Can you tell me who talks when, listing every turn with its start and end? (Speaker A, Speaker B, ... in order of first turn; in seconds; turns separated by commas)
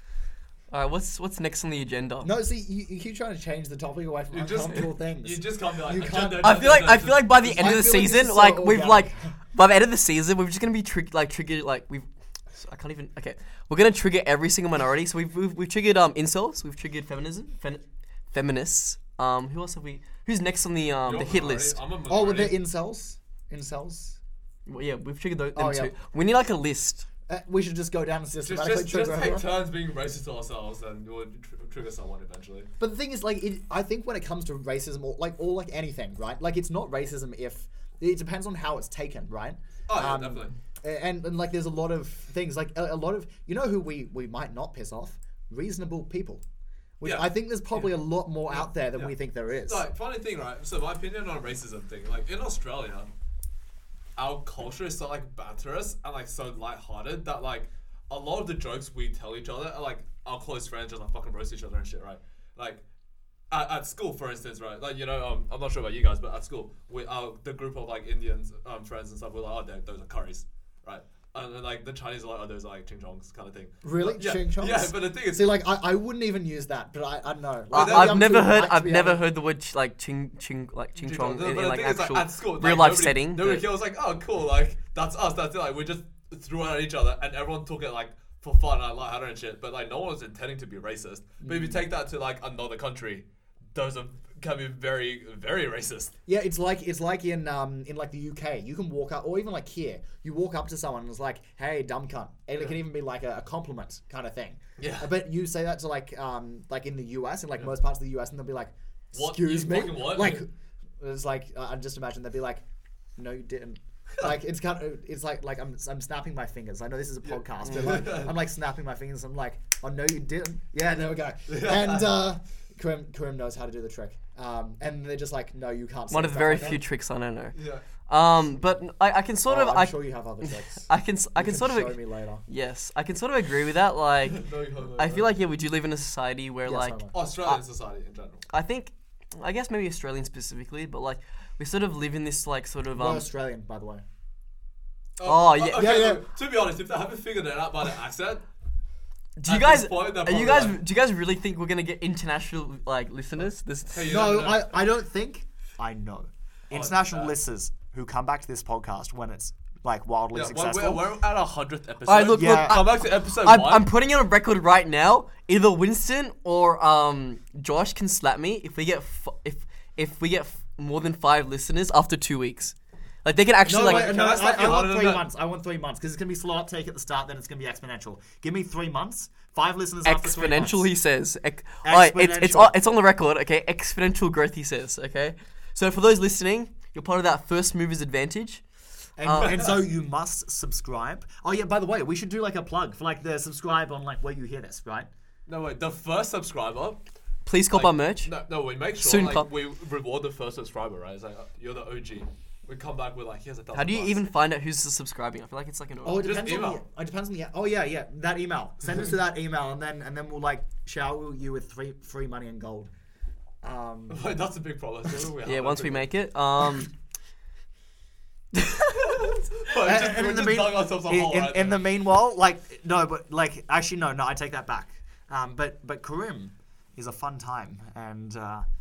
Speaker A: 0.7-2.3, Speaker B: 2.2-6.6, Speaker C: 4.3-7.5, Speaker A: 6.4-21.8, Speaker B: 7.4-9.3, Speaker C: 21.1-22.6, Speaker B: 22.1-24.2, Speaker A: 24.7-27.1, Speaker B: 25.6-25.9, Speaker B: 27.3-29.5, Speaker C: 28.4-32.7, Speaker B: 32.8-46.4, Speaker C: 39.9-40.5, Speaker B: 47.0-49.9, Speaker C: 47.0-47.9, Speaker C: 48.6-49.1, Speaker C: 49.6-53.1, Speaker C: 54.2-62.8, Speaker C: 63.5-75.5, Speaker B: 73.8-79.2, Speaker A: 77.7-83.7, Speaker C: 77.7-78.3, Speaker C: 81.0-96.1, Speaker B: 91.4-91.8, Speaker B: 96.3-110.5, Speaker C: 104.8-105.2, Speaker C: 109.1-110.5, Speaker B: 111.0-112.6, Speaker B: 113.2-126.8, Speaker C: 117.2-118.4, Speaker C: 121.5-122.1, Speaker A: 126.1-127.6, Speaker C: 127.5-127.8, Speaker A: 128.1-130.0, Speaker B: 129.5-132.4, Speaker A: 130.8-137.5, Speaker C: 134.3-135.3, Speaker B: 136.7-137.2, Speaker C: 137.1-138.4, Speaker A: 138.5-143.3, Speaker B: 142.9-144.0, Speaker C: 145.2-148.4, Speaker A: 145.2-146.0, Speaker B: 145.7-146.2, Speaker A: 149.4-154.1, Speaker C: 149.5-150.8, Speaker C: 153.9-154.7, Speaker B: 154.1-161.1, Speaker C: 156.7-157.3, Speaker C: 160.3-163.9, Speaker A: 162.1-174.2, Speaker B: 162.3-162.9, Speaker B: 173.7-180.9, Speaker C: 173.7-175.3, Speaker A: 180.1-188.6, Speaker B: 181.8-182.8, Speaker B: 189.2-195.1, Speaker A: 189.2-189.6, Speaker C: 189.4-189.7, Speaker C: 195.5-197.0, Speaker A: 197.5-198.3, Speaker C: 197.7-204.2, Speaker A: 199.0-199.5, Speaker A: 203.7-206.3, Speaker B: 206.1-212.9, Speaker C: 206.2-206.8, Speaker B: 213.6-214.2, Speaker C: 214.1-216.1, Speaker A: 215.4-216.9, Speaker A: 218.5-219.3, Speaker C: 219.6-221.8, Speaker B: 219.7-228.7